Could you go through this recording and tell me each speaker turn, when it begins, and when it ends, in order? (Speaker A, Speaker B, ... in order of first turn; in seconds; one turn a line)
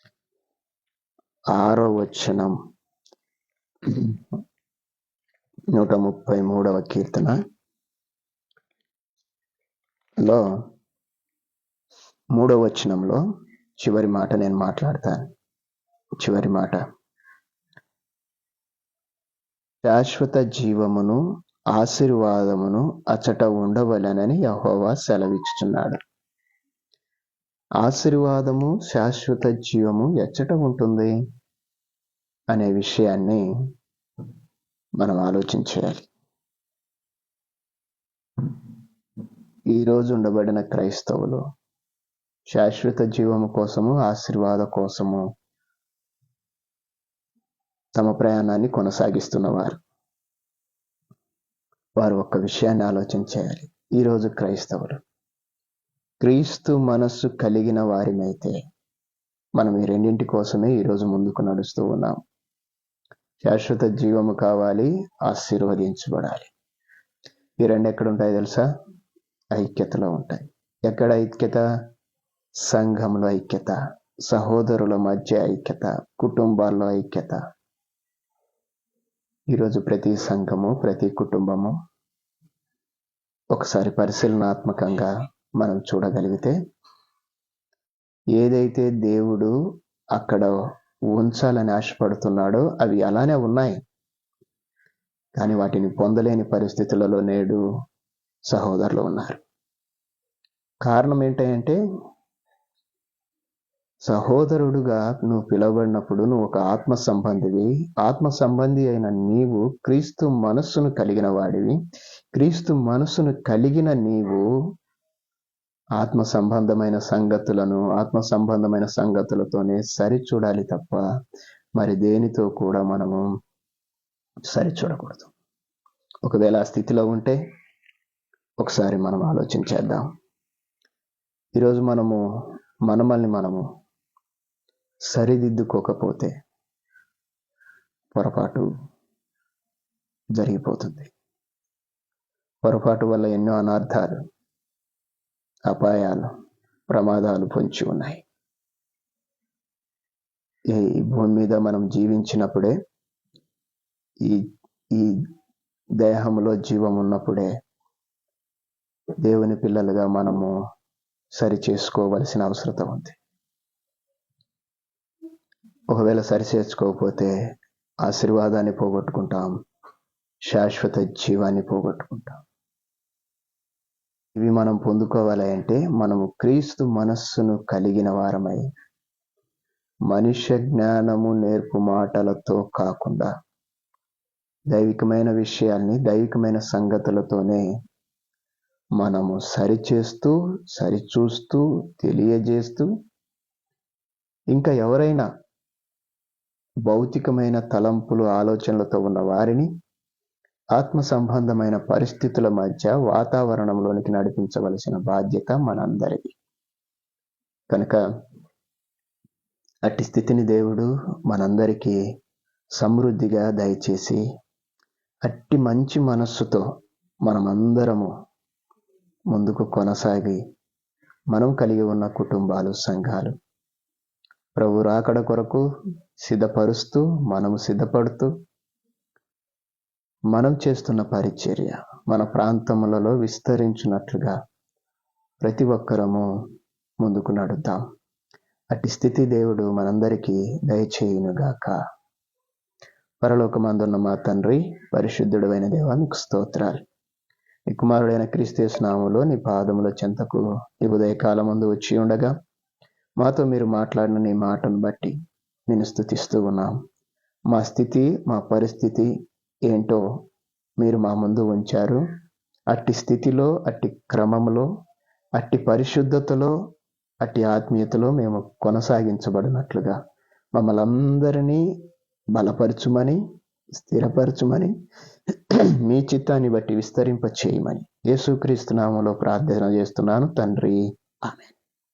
Speaker A: 1.5-2.5
Speaker A: 3.8-4.2
Speaker A: 5.7-7.3
Speaker A: 12.3-13.2
Speaker A: 13.8-15.3
Speaker A: 16.2-16.8
Speaker A: 19.8-21.2
Speaker A: 21.7-26.0
Speaker A: 27.8-31.1
Speaker A: 32.5-33.4
Speaker A: 35.0-36.1
Speaker A: 39.7-41.4
Speaker A: 42.5-45.2
Speaker A: 47.9-49.8
Speaker A: 52.0-55.0
Speaker A: 56.2-58.6
Speaker A: 59.6-62.2
Speaker A: 63.4-66.5
Speaker A: 67.6-68.6
Speaker A: 69.5-71.6
Speaker A: 72.6-77.4
Speaker A: 79.5-81.7
Speaker A: 83.5-86.5
Speaker A: 88.4-89.5
Speaker A: 90.1-90.5
Speaker A: 91.1-93.8
Speaker A: 95.4-97.6
Speaker A: 98.5-99.4
Speaker A: 100.8-101.8
Speaker A: 104.0-111.8
Speaker A: 112.3-114.5
Speaker A: 116.0-121.0
Speaker A: 121.8-123.2
Speaker A: 124.5-125.3
Speaker A: 126.2-127.4
Speaker A: 128.6-130.1
Speaker A: 131.6-132.2
Speaker A: 132.9-133.6
Speaker A: 135.1-136.3
Speaker A: 138.1-138.7
Speaker A: 140.3-141.1
Speaker A: 142.6-144.2
Speaker A: 145.7-146.3
Speaker A: 146.9-148.2
Speaker A: 150.7-152.7
Speaker A: 154.2-155.2
Speaker A: 156.0-157.5
Speaker A: 159.2-160.5
Speaker A: 161.4-163.2
Speaker A: 165.9-167.3
Speaker A: 168.0-169.5
Speaker A: 170.5-172.4
Speaker A: 174.3-178.6
Speaker A: 180.1-183.3
Speaker A: 184.7-187.6
Speaker A: 189.0-192.9
Speaker A: 194.5-195.3
Speaker A: 196.9-199.7
Speaker A: 200.7-206.3
Speaker A: 207.7-208.0
Speaker A: 209.8-212.0
Speaker A: 212.8-214.2
Speaker A: 215.2-216.6
Speaker A: 217.2-218.1
Speaker A: 219.3-220.4
Speaker A: 221.3-223.3
Speaker A: 224.6-225.6
Speaker A: 226.2-228.3
Speaker A: 230.3-234.3
Speaker A: 235.4-236.2
Speaker A: 237.0-237.8
Speaker A: 238.7-241.8
Speaker A: 243.2-246.8
Speaker A: 247.7-252.3
Speaker A: 253.2-255.1
Speaker A: 255.7-256.7
Speaker A: 257.5-259.1
Speaker A: 259.7-260.0
Speaker A: 260.8-262.0
Speaker A: 262.7-264.7
Speaker A: 265.4-266.5
Speaker A: 267.2-270.0
Speaker A: 270.5-271.6
Speaker A: 272.3-273.2
Speaker A: 273.7-274.7
Speaker A: 275.3-281.6